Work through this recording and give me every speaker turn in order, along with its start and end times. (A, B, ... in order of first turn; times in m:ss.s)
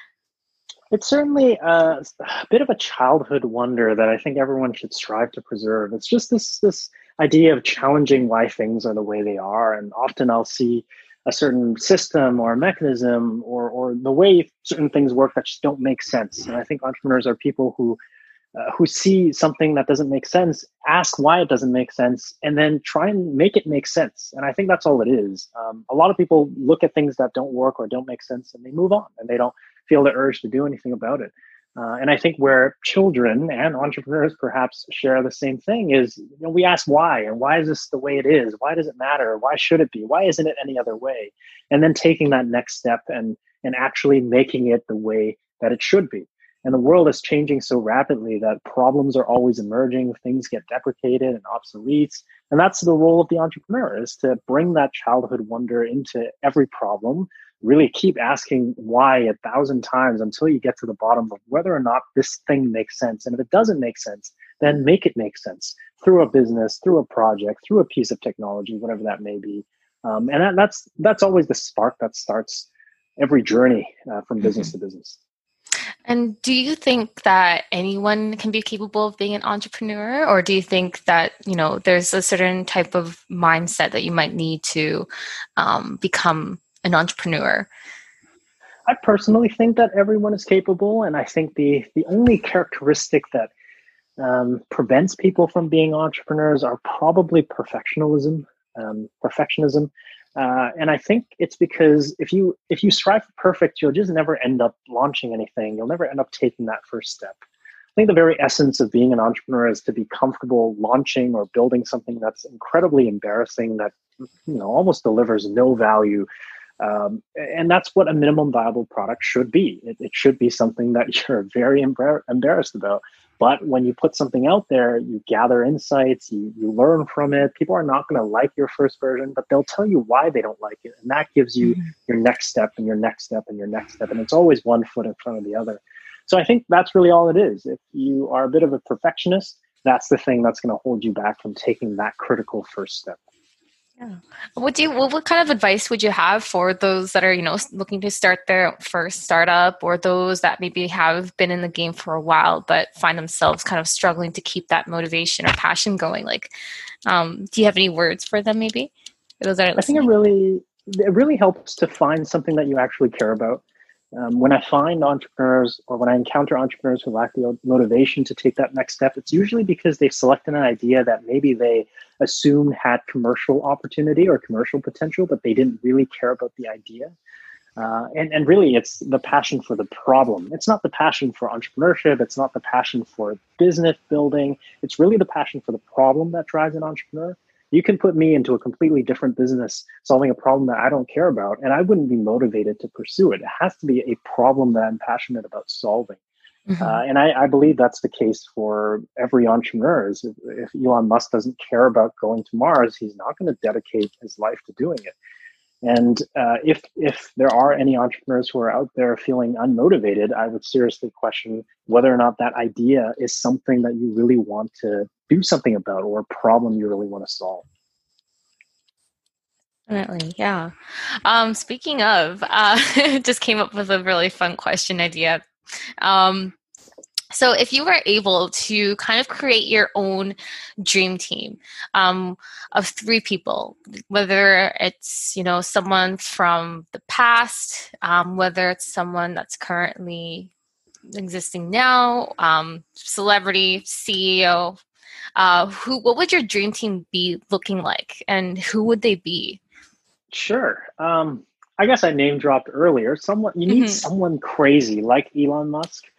0:00.9-0:18.0 A
0:18.5-1:15.2 A
1:16.0-1:27.7 B
1:28.8-1:33.5 A
1:34.2-1:47.4 A
1:48.0-1:56.3 A
1:56.8-2:23.2 A
2:24.0-2:36.5 B
2:37.0-2:40.1 B
2:39.8-2:57.1 A
2:57.8-3:16.2 A
3:16.7-3:17.0 B
3:16.8-3:25.1 A
3:25.8-3:37.6 A
3:39.9-3:45.4 B
3:46.0-3:46.5 B
3:47.3-4:00.5 B
4:01.1-4:04.8 B
4:05.4-4:09.6 B
4:10.3-4:16.1 A
4:13.7-4:14.0 B